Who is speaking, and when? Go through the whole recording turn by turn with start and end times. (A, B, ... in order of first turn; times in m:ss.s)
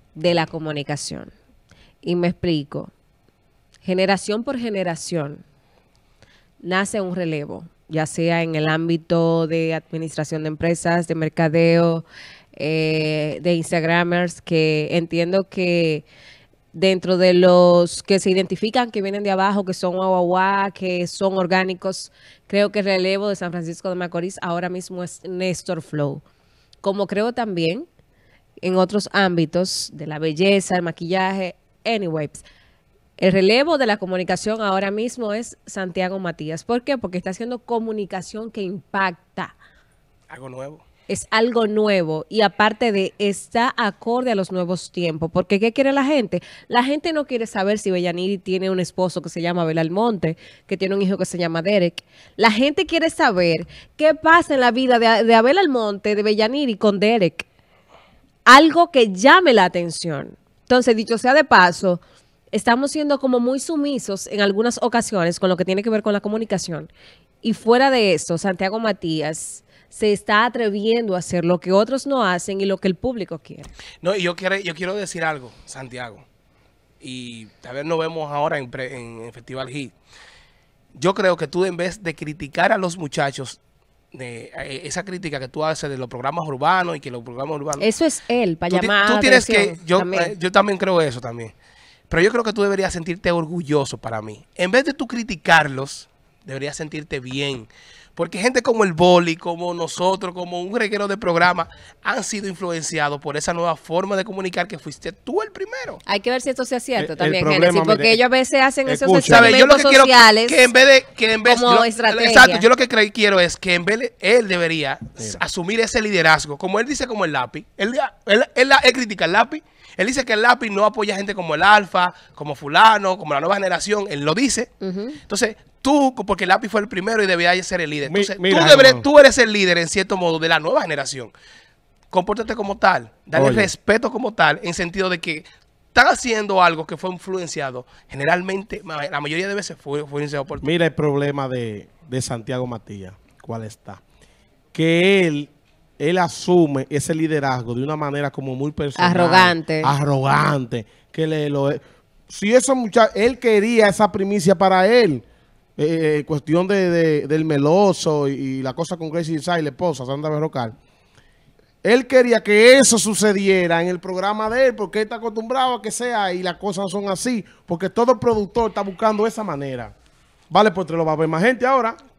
0:00.1-0:01.3 A
0:02.0-0:02.9 A
0:03.8-0:05.4 A
0:06.6-0:16.0 A
0:16.7-0:26.2 A
0:26.8-0:27.9 A
0:28.6-0:32.4 A
0:33.2-0:39.6 A
0:40.3-0:40.8 B
0:41.1-0:57.5 A
0:58.4-1:02.0 A
1:02.5-1:06.9 A
1:07.4-1:13.7 A
1:14.0-1:16.2 B
1:17.0-1:19.9 B
1:20.9-1:23.6 B
1:24.1-1:27.8 B
1:27.8-1:30.3 A
1:28.7-1:31.5 B
1:32.1-1:46.0 B
1:46.0-1:50.7 A
1:47.0-1:48.2 C
1:48.8-1:49.5 C
1:49.2-2:04.7 B
1:51.4-1:52.7 A
2:04.8-2:05.2 A
2:05.3-2:11.3 B
2:08.0-2:09.0 C
2:12.1-2:20.7 B
2:13.3-2:13.7 C
2:20.6-2:24.0 C
2:24.7-2:35.2 C
2:29.0-2:29.9 A
2:35.8-2:40.8 C
2:41.8-2:49.9 C
2:50.5-2:52.0 C